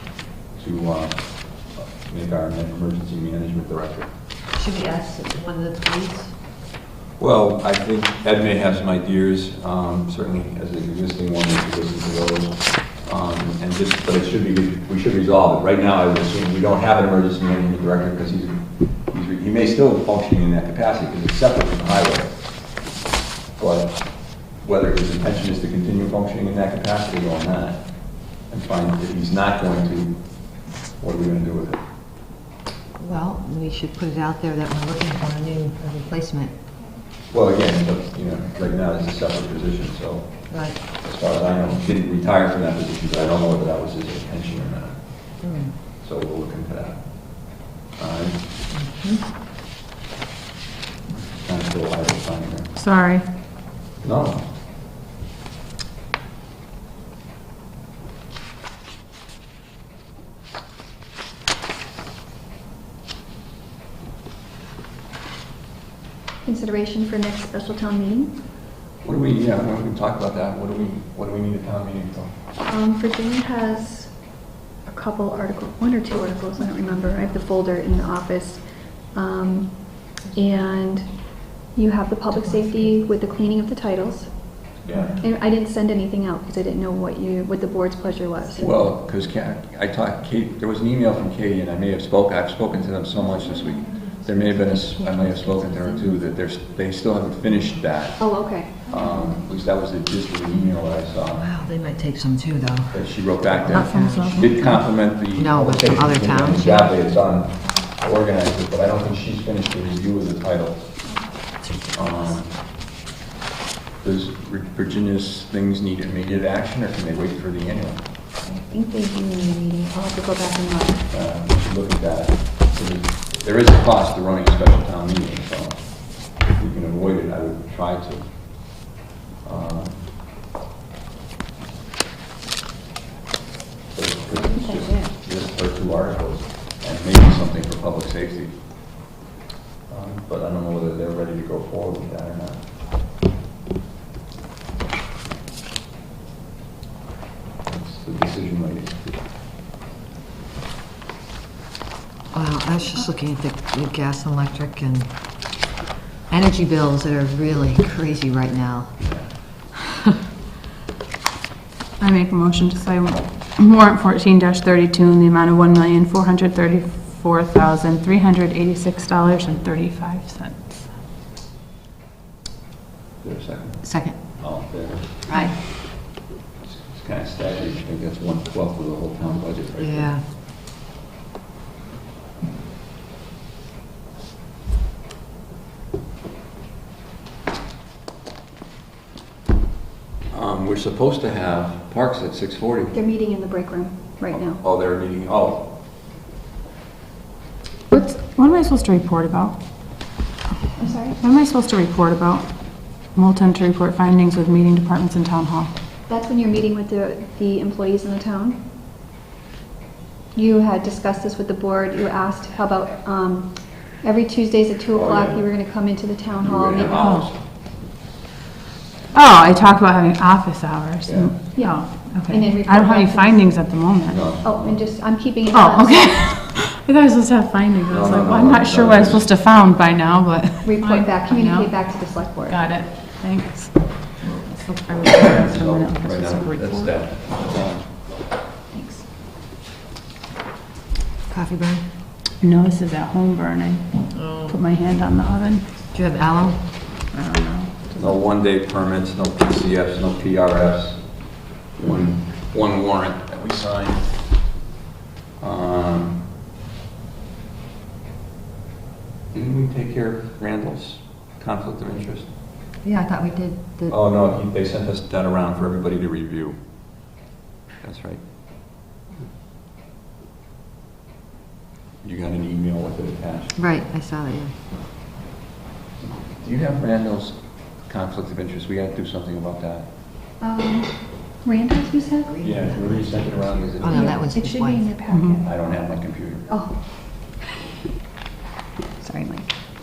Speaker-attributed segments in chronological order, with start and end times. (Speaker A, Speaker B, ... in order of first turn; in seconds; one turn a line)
Speaker A: 0.5-4.1
Speaker B: 4.5-6.3
Speaker A: 7.2-22.6
Speaker A: 23.6-31.8
Speaker B: 33.0-36.5
Speaker A: 37.3-48.5
Speaker B: 40.5-40.8
Speaker B: 45.4-45.7
Speaker B: 48.7-49.2
Speaker A: 51.4-52.7
Speaker C: 52.7-53.2
Speaker A: 54.0-54.5
Speaker D: 66.4-68.4
Speaker A: 69.0-72.3
Speaker D: 72.6-74.2
Speaker D: 74.8-88.7
Speaker A: 84.8-85.2
Speaker A: 88.6-101.5
Speaker D: 98.2-98.8
Speaker B: 101.3-104.6
Speaker A: 102.9-111.0
Speaker C: 103.7-104.8
Speaker B: 105.2-106.9
Speaker A: 111.9-112.6
Speaker A: 114.0-118.0
Speaker D: 118.4-121.1
Speaker A: 121.1-128.8
Speaker A: 129.4-130.1
Speaker A: 133.9-138.9
Speaker D: 134.3-135.1
Speaker A: 139.9-142.7
Speaker A: 147.7-149.2
Speaker B: 152.3-155.1
Speaker B: 156.3-159.0
Speaker A: 159.0-159.3
Speaker C: 162.0-170.9
Speaker A: 173.2-175.2
Speaker B: 173.8-174.2
Speaker B: 175.3-175.6
Speaker A: 176.6-180.1
Speaker B: 179.8-180.2
Speaker A: 190.3-192.9
Speaker D: 192.9-194.6
Speaker A: 194.3-195.8
Speaker C: 197.9-199.6
Speaker D: 200.8-201.2
Speaker C: 201.1-205.7
Speaker D: 206.1-208.6
Speaker D: 210.3-217.2
Speaker A: 214.9-215.5
Speaker A: 216.4-217.4
Speaker C: 216.8-217.3
Speaker C: 219.1-224.2
Speaker A: 221.1-221.3
Speaker D: 221.6-223.7
Speaker A: 224.1-224.8
Speaker D: 224.4-226.4
Speaker C: 225.5-237.0
Speaker A: 227.9-229.3
Speaker D: 230.6-232.6
Speaker A: 235.0-237.9
Speaker D: 238.7-239.0
Speaker B: 241.3-241.8
Speaker C: 242.4-245.7
Speaker B: 244.1-244.6
Speaker B: 245.9-246.6
Speaker C: 247.1-248.1
Speaker A: 247.9-254.3
Speaker A: 255.4-256.2
Speaker A: 259.3-262.3
Speaker B: 262.8-263.9
Speaker A: 263.9-266.7
Speaker A: 267.8-268.2
Speaker A: 272.0-273.6
Speaker B: 273.6-274.5
Speaker A: 276.0-279.9
Speaker D: 280.4-282.5
Speaker B: 282.4-284.9
Speaker A: 282.4-284.2
Speaker D: 283.8-285.5
Speaker C: 285.1-285.4
Speaker A: 285.4-286.5
Speaker D: 286.5-287.3
Speaker D: 289.0-289.5